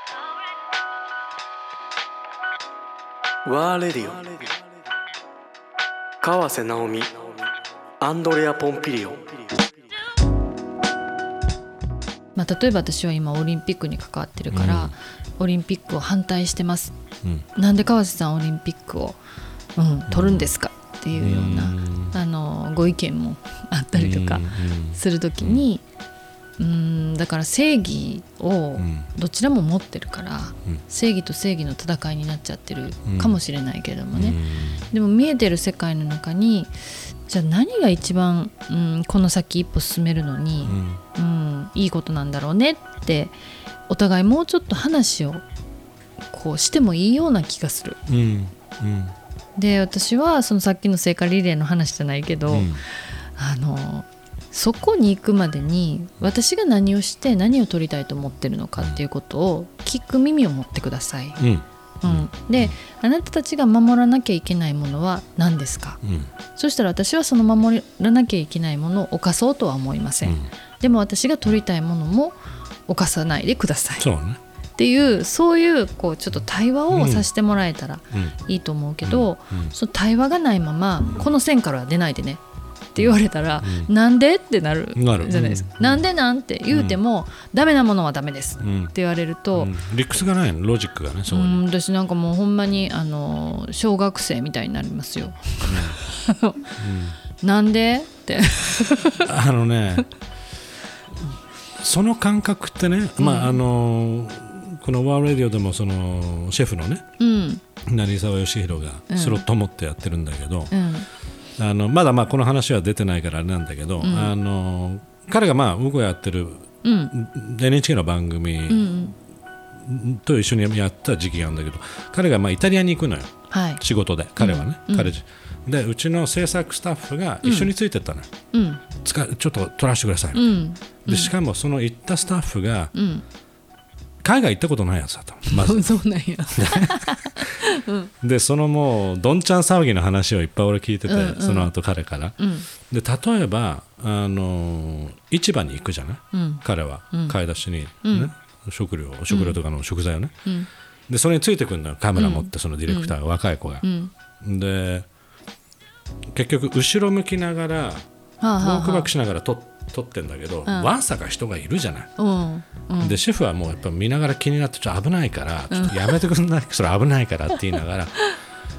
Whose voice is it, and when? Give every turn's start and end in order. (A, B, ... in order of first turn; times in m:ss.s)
0:03.4-0:04.4 A
0:06.2-0:07.3 A
0:08.0-0:09.3 A
0:12.3-0:16.9 B
0:14.5-0:14.9 C
0:17.5-0:19.2 B
0:19.8-0:25.8 B
0:20.1-0:20.5 C
0:21.2-0:22.2 C
0:23.9-0:25.6 C
0:26.6-0:36.7 B
0:28.8-0:29.1 C
0:33.1-0:33.4 C
0:34.1-0:34.8 C
0:37.3-0:43.4 B
0:40.6-0:41.0 C
0:43.9-0:45.4 B
0:46.3-0:48.0 B
0:48.1-0:49.1 C
0:49.6-0:52.8 B
0:52.5-0:52.8 C
0:53.4-1:01.4 B
1:01.4-1:02.8 C
1:02.0-1:06.0 B
1:06.0-1:06.3 C
1:06.5-1:12.4 B
1:10.2-1:10.5 C
1:12.9-1:14.0 B
1:14.0-1:14.4 C
1:14.8-1:22.4 B
1:16.9-1:17.2 C
1:19.0-1:19.7 C
1:22.9-1:29.7 B
1:23.0-1:23.9 C
1:25.0-1:26.0 C
1:26.7-1:27.0 C
1:28.6-1:28.9 C
1:29.5-1:31.6 C
1:31.3-1:36.6 B
1:35.6-1:36.0 C
1:36.8-1:37.2 C
1:37.4-1:39.3 B
1:39.2-1:40.1 C
1:41.8-1:47.0 C
1:43.2-1:43.6 B
1:47.2-1:47.6 B
1:47.9-1:50.7 C
1:49.1-1:49.4 B
1:50.7-1:51.1 B
1:51.6-1:59.0 C
1:54.0-1:54.3 B
1:56.8-1:57.1 B
1:58.7-1:59.2 B
1:59.8-2:08.3 C
2:03.5-2:03.8 B
2:04.4-2:05.1 B
2:07.4-2:07.7 B
2:08.5-2:08.8 B
2:09.0-2:12.9 C
2:10.3-2:11.3 B
2:12.9-2:13.2 B
2:14.2-2:15.9 C
2:15.5-2:18.1 B
2:16.5-2:17.4 C
2:18.2-2:30.3 C
2:21.1-2:21.7 B
2:22.4-2:22.7 B
2:26.3-2:27.4 B
2:28.0-2:28.3 B
2:29.3-2:29.6 B
2:31.1-2:33.8 C
2:32.2-2:33.2 B
2:33.8-2:34.1 B
2:34.4-2:35.0 C
2:36.3-2:38.0 C
2:38.4-2:39.1 B
2:38.6-2:42.1 C
2:40.6-2:40.9 B
2:42.2-2:43.2 B
2:43.0-2:48.1 C
2:45.7-2:46.2 B